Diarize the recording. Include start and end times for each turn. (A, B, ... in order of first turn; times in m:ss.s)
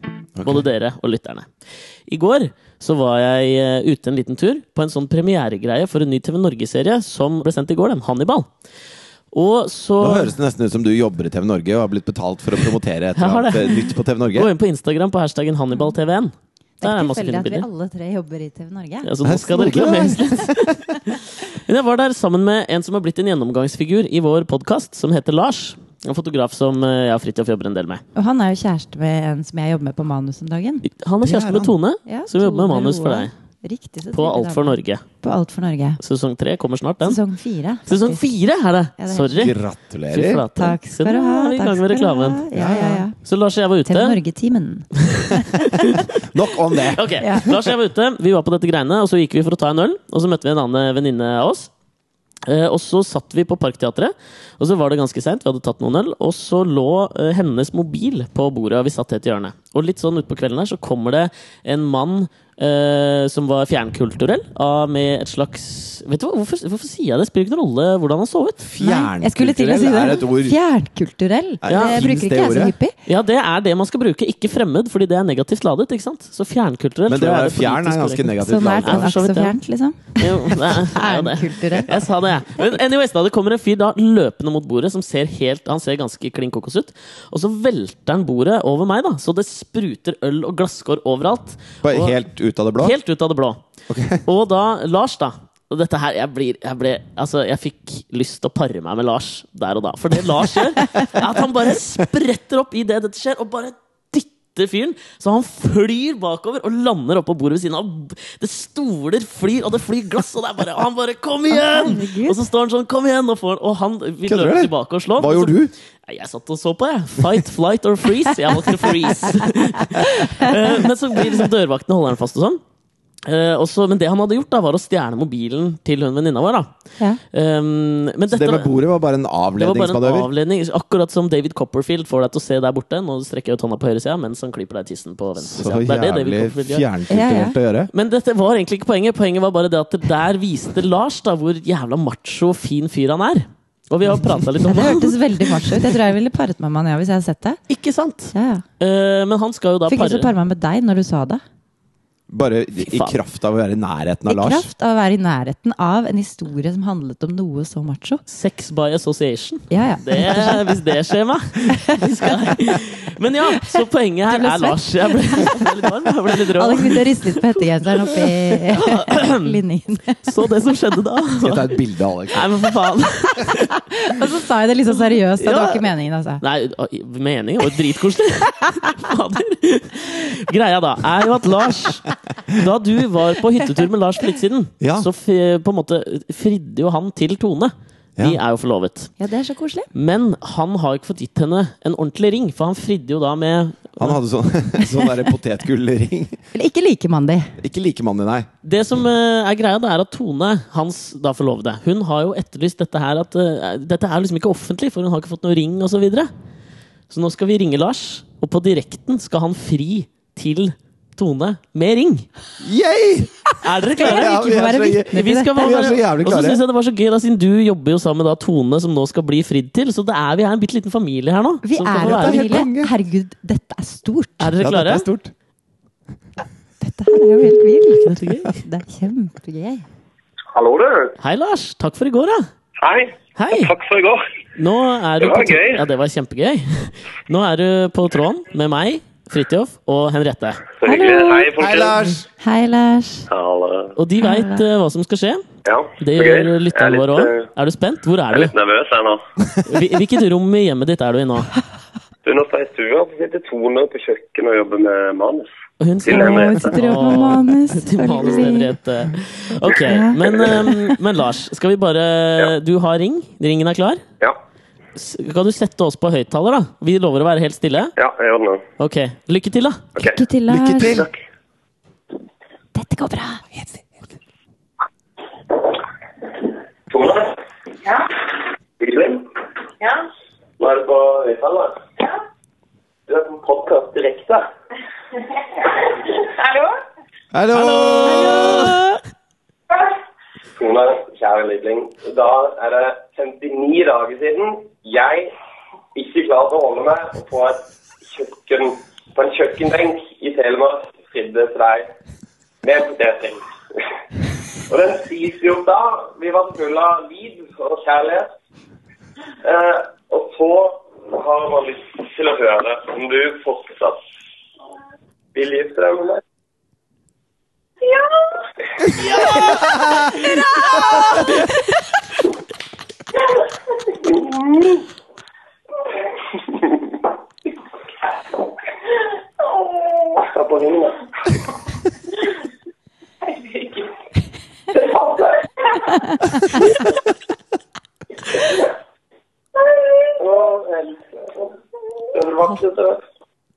0:00.4-0:00.6 A
0:00.4-0:01.5 B
0:02.1-0:08.5 B
0:09.3-0:10.3 B
0:10.0-0:14.5 A
0:13.1-0:17.6 B
0:16.8-0:19.1 C
0:19.0-0:28.0 B
0:19.2-0:20.8 A
0:28.1-0:30.8 C
0:30.9-0:33.3 B
0:31.2-0:31.7 A
0:32.0-0:36.0 C
0:34.1-0:35.0 B
0:36.0-0:37.2 B
0:37.0-0:38.2 C
0:37.9-0:39.5 B
0:39.0-0:39.5 C
0:39.4-0:40.4 A
0:40.1-0:44.2 B
0:40.5-0:43.2 C
0:42.6-0:43.0 A
0:43.8-0:45.8 C
0:45.0-0:46.1 B
0:46.2-0:47.7 A
0:46.7-0:51.7 B
0:47.2-0:47.5 C
0:52.4-1:08.6 B
1:08.6-1:10.6 A
1:08.8-1:12.9 C
1:11.6-1:12.7 A
1:11.7-1:12.0 B
1:13.0-1:19.6 B
1:17.1-1:19.1 A
1:18.4-1:21.9 C
1:20.2-1:32.2 B
1:21.8-1:22.0 A
1:31.8-1:33.0 A
1:32.8-1:33.6 B
1:33.9-1:34.2 A
1:34.2-2:02.6 B
1:51.5-1:52.4 C
1:54.2-1:55.7 A
2:00.0-2:00.8 C
2:03.2-2:06.7 B
2:07.3-2:08.7 B
2:08.3-2:10.3 A
2:09.6-2:16.9 B
2:15.4-2:17.9 A
2:17.1-2:17.6 C
2:17.9-2:25.8 B
2:24.6-2:27.6 C
2:27.7-2:30.3 B
2:28.3-2:28.6 C
2:29.9-2:31.4 C
2:32.3-2:34.7 A
2:32.8-2:33.2 B
2:34.2-2:38.2 C
2:38.3-2:49.6 B
2:39.7-2:40.8 C
2:41.7-2:42.6 C
2:43.6-2:45.7 C
2:46.4-2:50.3 C
2:50.3-2:51.7 B
2:51.4-2:52.5 A
2:52.3-2:53.7 B
2:53.7-2:56.4 C
2:55.4-2:55.9 B
2:56.4-3:09.1 B
3:04.8-3:05.1 A
3:09.2-3:09.9 C
3:09.9-3:14.2 B
3:14.0-3:16.4 A
3:16.5-3:17.5 C
3:17.6-3:18.5 A
3:18.6-3:26.3 B
3:27.1-3:32.3 B
3:32.6-3:33.3 A
3:33.6-3:34.3 B
3:33.9-3:35.8 C
3:34.0-3:36.6 A
3:35.1-3:42.6 B
3:41.6-3:44.5 C
3:41.9-3:42.9 A
3:44.4-3:45.0 B
3:44.6-3:45.3 A
3:46.8-3:49.8 C
3:48.0-3:48.5 B
3:50.5-3:51.1 D
3:51.2-3:52.4 B
3:52.8-3:54.2 D
3:53.4-3:53.7 B
3:54.6-4:00.7 B
3:55.2-3:55.8 D
4:00.8-4:02.0 D
4:00.8-4:01.5 C
4:01.6-4:02.2 A
4:02.4-4:03.3 C
4:03.3-4:03.9 D
4:04.0-4:05.4 B
4:04.2-4:04.6 C
4:05.6-4:07.4 D
4:06.0-4:08.5 B
4:08.3-4:09.2 D
4:09.6-4:11.5 B
4:12.2-4:16.8 D
4:15.8-4:24.0 B
4:16.1-4:18.7 C
4:19.7-4:20.7 C
4:25.0-4:27.9 B
4:28.0-4:28.6 D
4:28.8-4:29.8 B
4:30.0-4:31.1 C
4:30.5-4:31.1 A
4:32.7-4:33.4 C
4:36.9-4:37.4 D
4:38.8-4:39.3 D
4:39.8-4:40.1 E
4:40.6-4:41.8 D
4:43.1-4:44.4 D
4:46.3-4:46.8 E
4:47.3-4:48.8 A
4:47.8-4:49.0 C
4:50.6-4:55.3 D
4:55.9-5:01.9 D
5:02.6-5:03.4 D
5:04.7-5:08.3 D
5:09.4-5:14.0 D
5:15.3-5:16.2 D
5:17.8-5:18.2 E
5:19.0-5:19.6 E
5:19.0-5:19.6 B
5:19.4-5:21.0 A
5:20.2-5:21.1 E
5:20.7-5:21.0 C
5:24.0-5:24.8 D
5:26.3-5:26.9 D
5:30.2-5:31.4 D
5:33.2-5:33.9 E
5:34.7-5:35.5 D
5:40.2-5:41.5 D
5:42.1-5:43.0 D